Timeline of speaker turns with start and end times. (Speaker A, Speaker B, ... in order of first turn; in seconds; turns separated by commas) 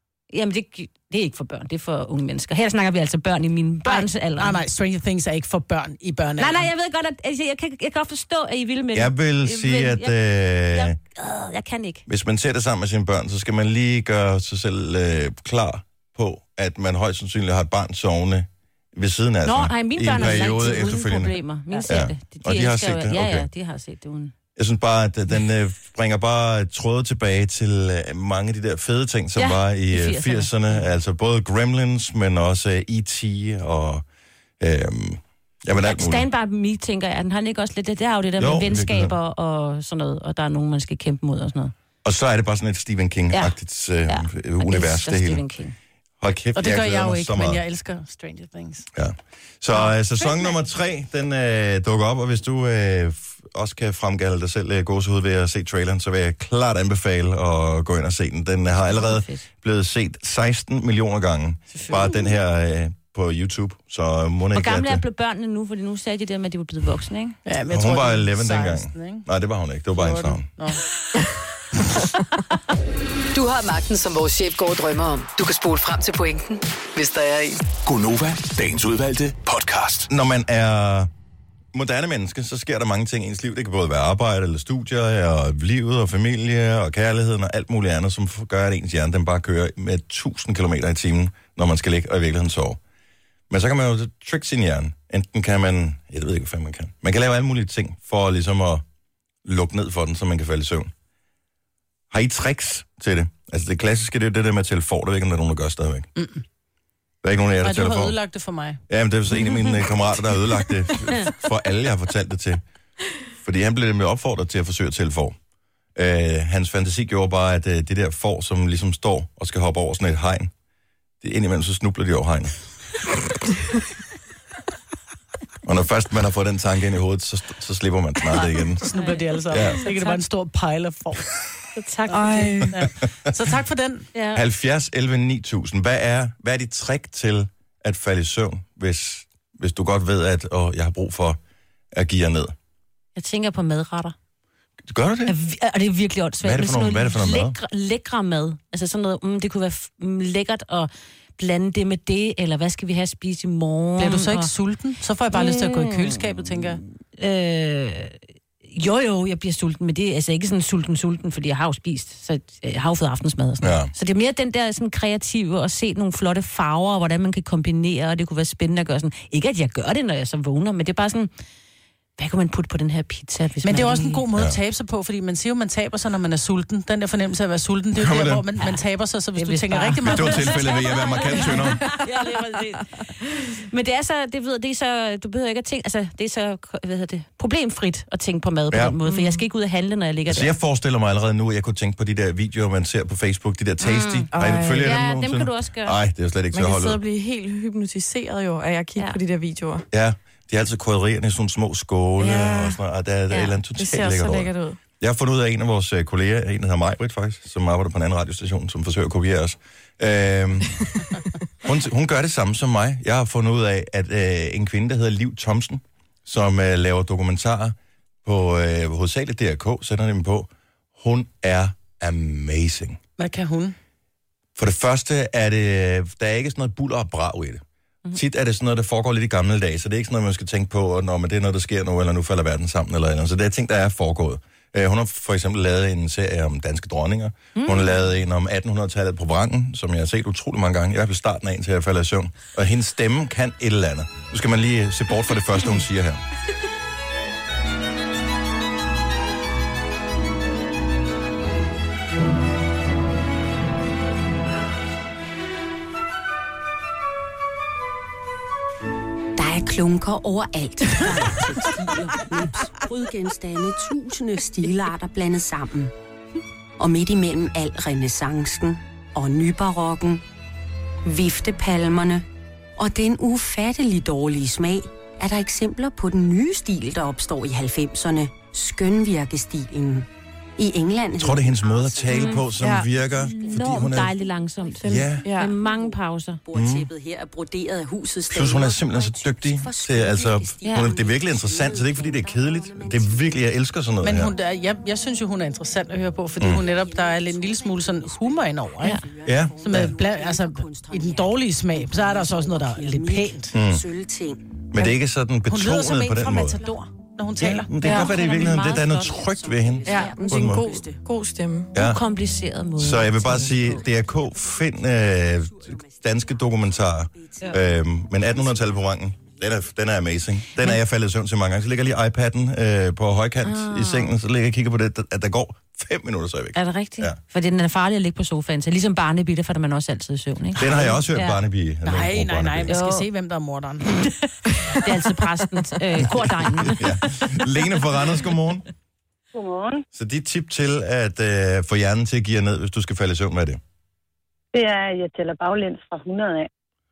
Speaker A: 0.3-4.6, Speaker B: 3.8-6.7, Speaker A: 6.4-10.2, Speaker C: 8.9-10.9, Speaker A: 10.7-12.0, Speaker C: 12.1-23.5, Speaker A: 19.4-24.3, Speaker C: 24.6-34.0, Speaker A: 29.4-30.9, Speaker C: 34.6-36.3, Speaker A: 35.8-41.7, Speaker C: 38.4-39.1, Speaker C: 42.0-45.4, Speaker A: 44.1-45.7, Speaker C: 46.2-47.6, Speaker B: 46.5-48.9, Speaker C: 48.9-65.0, Speaker B: 49.7-50.5, Speaker A: 58.9-59.4, Speaker A: 64.5-67.4, Speaker B: 67.4-69.3, Speaker C: 67.7-70.5, Speaker B: 70.0-70.8, Speaker D: 73.3-77.6, Speaker E: 77.8-80.1, Speaker C: 80.1-81.1, Speaker C: 81.7-92.8, Speaker C: 93.5-98.8, Speaker C: 99.4-100.9, Speaker C: 102.1-106.1, Speaker B: 106.2-106.4, Speaker C: 107.2-108.2, Speaker B: 107.6-108.8, Speaker C: 108.9-112.6, Speaker C: 113.4-115.3, Speaker C: 116.0-120.5, Speaker C: 121.2-122.5, Speaker C: 125.6-128.8, Speaker B: 128.3-131.2, Speaker A: 128.9-130.2, Speaker C: 129.5-129.8, Speaker A: 131.8-132.7, Speaker B: 132.1-134.1, Speaker F: 132.1-132.7, Speaker A: 134.1-134.4, Speaker C: 134.3-141.4, Speaker C: 141.9-142.5, Speaker A: 143.2-144.1, Speaker C: 144.8-145.3, Speaker A: 145.3-154.5, Speaker C: 146.4-147.6, Speaker B: 154.0-156.8, Speaker A: 155.3-171.3, Speaker C: 163.6-163.9, Speaker A: 172.2-174.2, Speaker B: 173.6-180.6, Speaker C: 177.9-178.4, Speaker A: 179.3-190.5, Speaker C: 180.0-181.9, Speaker C: 188.7-189.0, Speaker F: 189.1-189.4, Speaker C: 190.3-197.0, Speaker A: 193.8-196.0, Speaker F: 194.3-195.0, Speaker F: 196.5-199.8, Speaker C: 199.9-210.8, Speaker F: 202.2-202.8, Speaker F: 203.8-204.8, Speaker C: 211.6-223.0, Speaker B: 223.2-223.8, Speaker C: 224.6-246.2, Speaker A: 237.6-238.0, Speaker G: 259.4-265.9, Speaker G: 266.8-270.2, Speaker G: 271.0-272.2, Speaker G: 272.8-282.5, Speaker C: 281.2-284.1, Speaker A: 282.1-282.4, Speaker F: 282.6-282.9, Speaker G: 283.1-293.3, Speaker A: 283.3-286.4, Speaker F: 284.8-285.5, Speaker C: 284.9-285.2, Speaker C: 286.5-286.9, Speaker C: 288.3-294.3, Speaker A: 290.6-290.9, Speaker B: 294.0-299.0, Speaker G: 296.5-304.6, Speaker C: 299.2-299.9, Speaker B: 299.6-303.5, Speaker C: 303.5-303.8, Speaker C: 304.7-306.6, Speaker B: 305.5-307.9, Speaker C: 307.4-310.6, Speaker A: 307.8-309.2, Speaker G: 308.1-311.0, Speaker F: 309.9-311.7, Speaker C: 311.7-312.0, Speaker A: 311.7-313.6, Speaker C: 312.8-327.2, Speaker G: 313.4-314.7, Speaker G: 315.4-316.5, Speaker G: 317.1-317.6, Speaker A: 323.4-324.1, Speaker A: 326.5-331.4, Speaker C: 330.6-332.7, Speaker B: 331.8-334.8, Speaker A: 332.7-333.0, Speaker A: 334.8-336.8, Speaker C: 336.1-338.6, Speaker H: 339.3-339.9, Speaker C: 339.9-343.6, Speaker H: 344.5-346.5